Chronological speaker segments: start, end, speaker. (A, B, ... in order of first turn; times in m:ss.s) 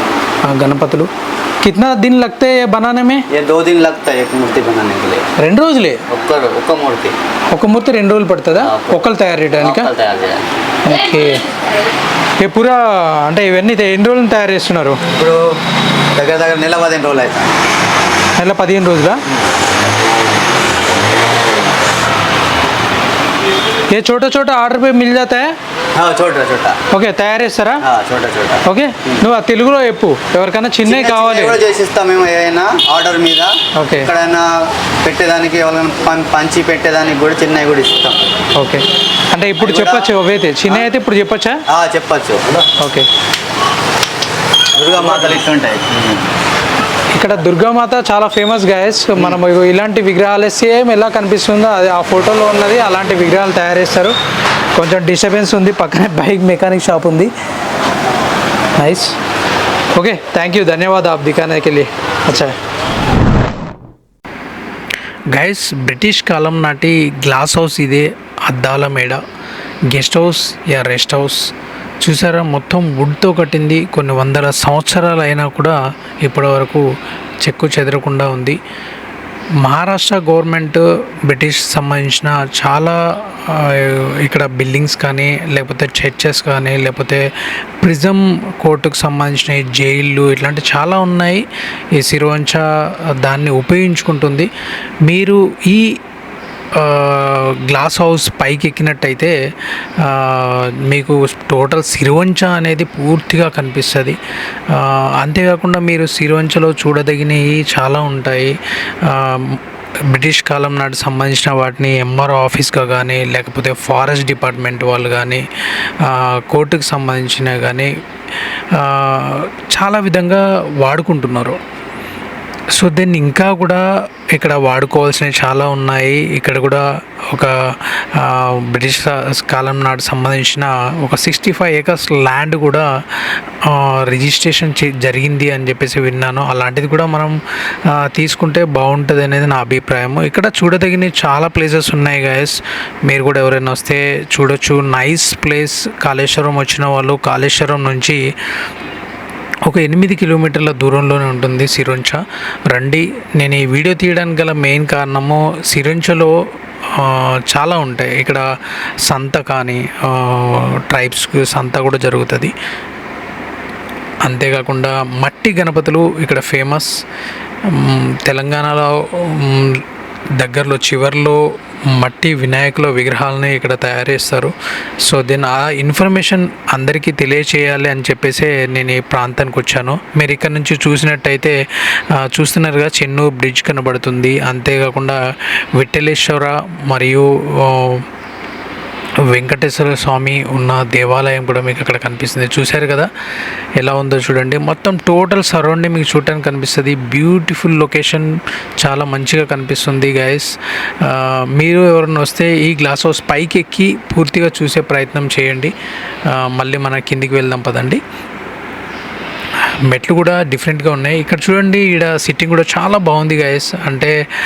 0:00.4-0:01.1 A
0:01.6-0:03.2 A
0:03.3-0:05.3 B
0:05.4-0:06.0 A
0:06.1-0:07.2 B
0:07.5-0:09.9 A
0:08.6-0:10.5 B
0:10.8-0:11.4 A
0:12.4-0:15.0 A
0:15.1-0:15.6 B
0:16.2-0:17.6 B
0:18.4-0:19.2 A
0:23.9-0:25.6 A
0:26.0-0:26.8 B
0:26.9-0:27.8 A
0:27.8-0:29.2 B
0:28.6-0:31.6 A
0:30.9-0:38.2 B
0:33.8-0:34.1 A
0:38.6-0:41.6 A
0:39.6-0:40.9 B
0:41.7-0:42.7 B
0:42.8-0:43.1 A
0:44.8-0:46.3 B
0:47.1-0:54.2 A
0:54.8-0:57.3 A
0:58.8-0:59.1 A
1:00.0-1:02.6 A
1:05.3-1:09.2 A
1:09.9-1:11.5 A
1:12.0-1:16.9 A
1:17.4-1:18.6 A
1:19.6-1:27.3 A
1:27.8-1:34.5 A
1:35.0-1:36.0 A
1:36.8-1:39.4 A
1:40.0-1:44.2 A
1:44.7-1:55.5 A
1:56.0-1:57.9 A
1:58.7-2:01.6 A
2:02.7-2:12.9 A
2:13.6-2:17.4 A
2:17.9-2:28.2 A
2:29.7-2:36.4 A
2:36.9-2:38.4 A
2:39.0-2:42.5 A
2:44.2-2:47.0 A
2:47.7-2:49.8 A
2:50.4-3:01.6 A
3:02.1-3:05.2 A
3:05.7-3:08.0 A
3:09.3-3:13.1 A
3:13.8-3:25.7 A
3:26.3-3:28.0 A
3:29.9-3:34.2 A